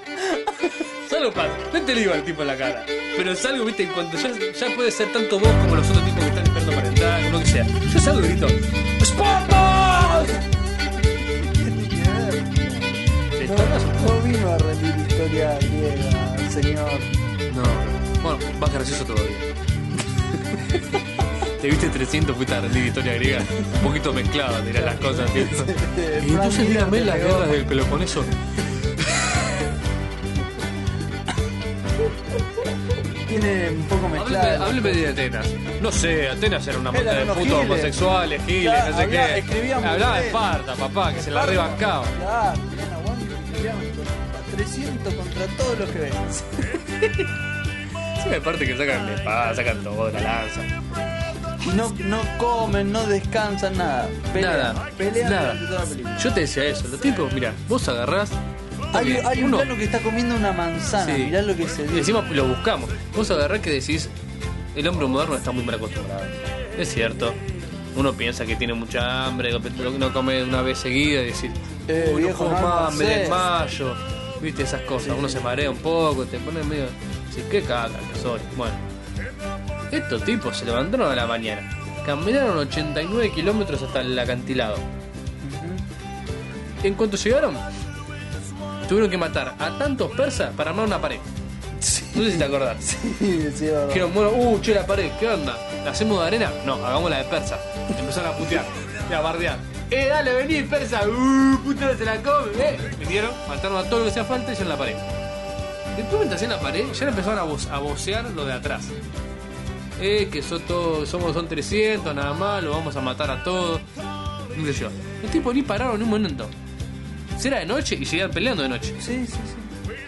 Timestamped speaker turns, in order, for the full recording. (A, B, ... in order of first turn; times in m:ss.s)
0:00.6-0:10.4 A
0:11.2-0:17.2 B
0:13.3-0:14.2 A
0:17.5-0:19.5 A
0:20.1-0:20.6 B
0:20.7-0:21.0 A
0:21.6-0:28.3 A
0:24.8-0:27.5 B
0:32.6-0:35.0 B
0:34.2-0:42.1 A
0:36.9-0:40.5 B
0:41.1-0:46.8 B
0:47.0-0:47.3 A
0:48.1-0:50.7 A
0:51.6-0:56.3 B
0:54.3-0:55.6 A
0:56.2-0:58.4 A
0:58.9-0:59.7 A
0:58.9-1:02.2 B
1:01.0-1:01.4 A
1:01.9-1:04.1 A
1:04.7-1:07.4 A
1:07.9-1:18.8 A
1:11.9-1:13.4 B
1:15.0-1:15.4 B
1:19.9-1:24.8 A
1:25.4-1:25.8 B
1:26.8-1:27.6 A
1:28.8-1:31.3 A
1:31.8-1:34.1 B
1:32.1-1:32.8 A
1:33.9-1:45.1 A
1:45.9-1:49.0 A
1:50.0-1:53.9 A
1:54.5-1:56.5 A
1:57.4-1:59.0 A
1:59.0-1:59.7 B